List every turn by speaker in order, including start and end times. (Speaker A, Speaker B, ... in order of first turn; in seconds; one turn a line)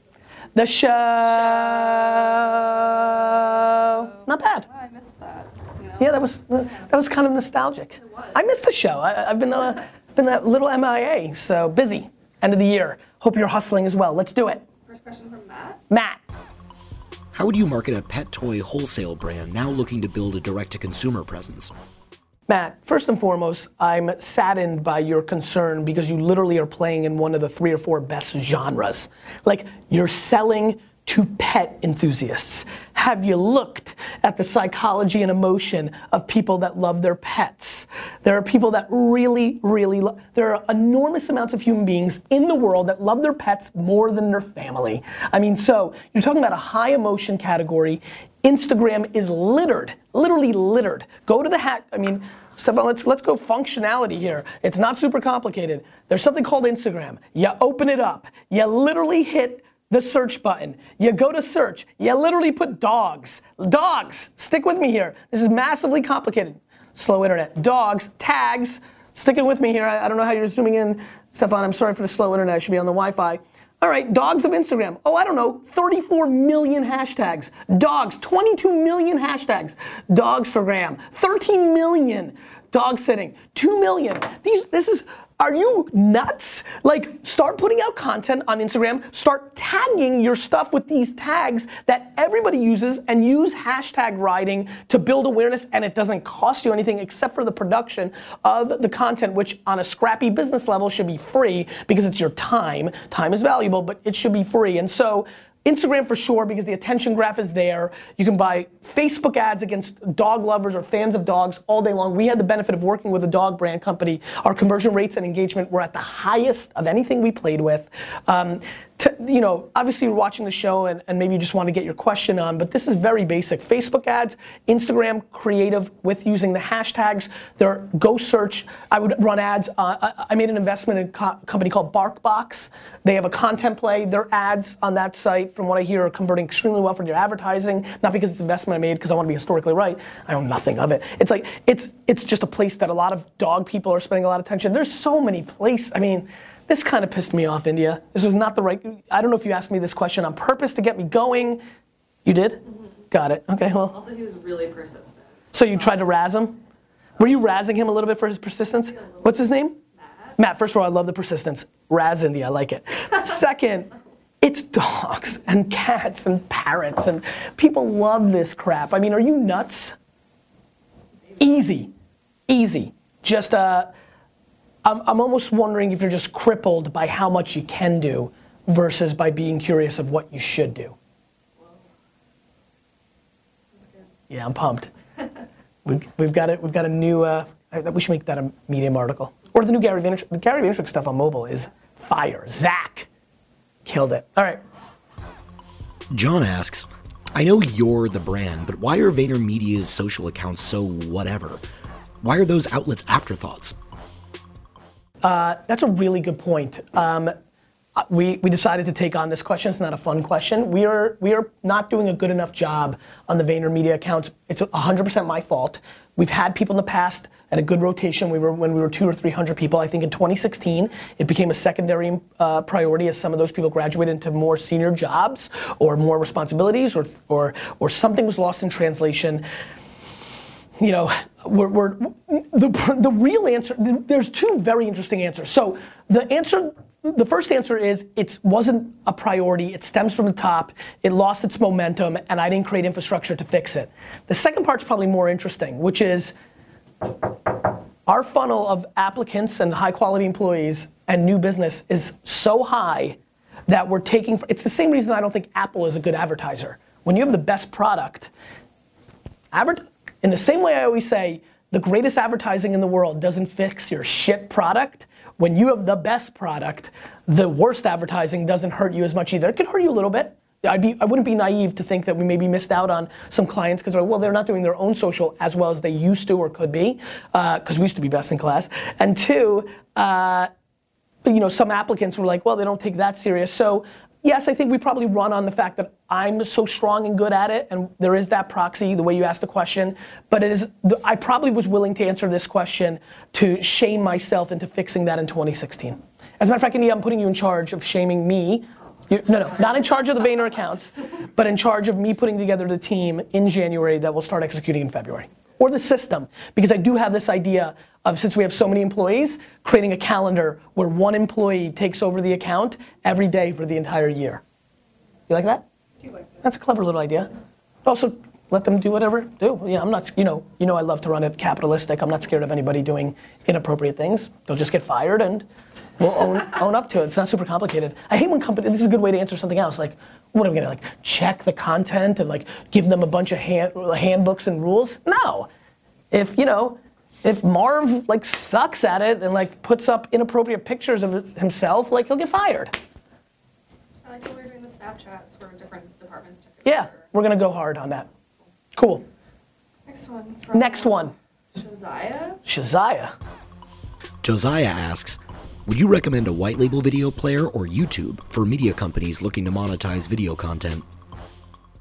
Speaker A: 0.6-4.7
Speaker B: 1.3-6.2
Speaker A: 6.0-14.7
Speaker B: 8.0-8.3
Speaker B: 14.9-15.8
Speaker A: 15.9-16.2
Speaker C: 17.3-21.7
Speaker A: 22.5-151.6
Speaker A: 152.2-154.0
Speaker B: 153.9-156.0
Speaker A: 155.5-156.6
Speaker A: 157.2-159.8
Speaker A: 160.4-163.9
Speaker A: 164.4-170.0
Speaker A: 171.4-171.9
Speaker A: 172.5-173.9
Speaker A: 174.8-180.9
Speaker A: 184.3-184.9
Speaker A: 185.8-193.1
Speaker A: 193.8-194.6
Speaker C: 196.1-201.6
Speaker C: 202.2-203.8
Speaker A: 205.2-207.3
Speaker A: 208.0-229.4
Speaker A: 230.8-246.3
Speaker A: 248.1-258.3
Speaker A: 259.5-280.5
Speaker A: 281.2-314.4
Speaker A: 315.3-315.6
Speaker A: 316.4-317.3
Speaker A: 317.9-325.4
Speaker A: 326.0-335.5
Speaker A: 336.1-342.7
Speaker B: 344.0-347.1
Speaker A: 346.6-348.1
Speaker A: 348.8-349.0
Speaker B: 349.9-352.4
Speaker A: 350.5-351.1
Speaker A: 352.4-353.1
Speaker C: 354.2-360.9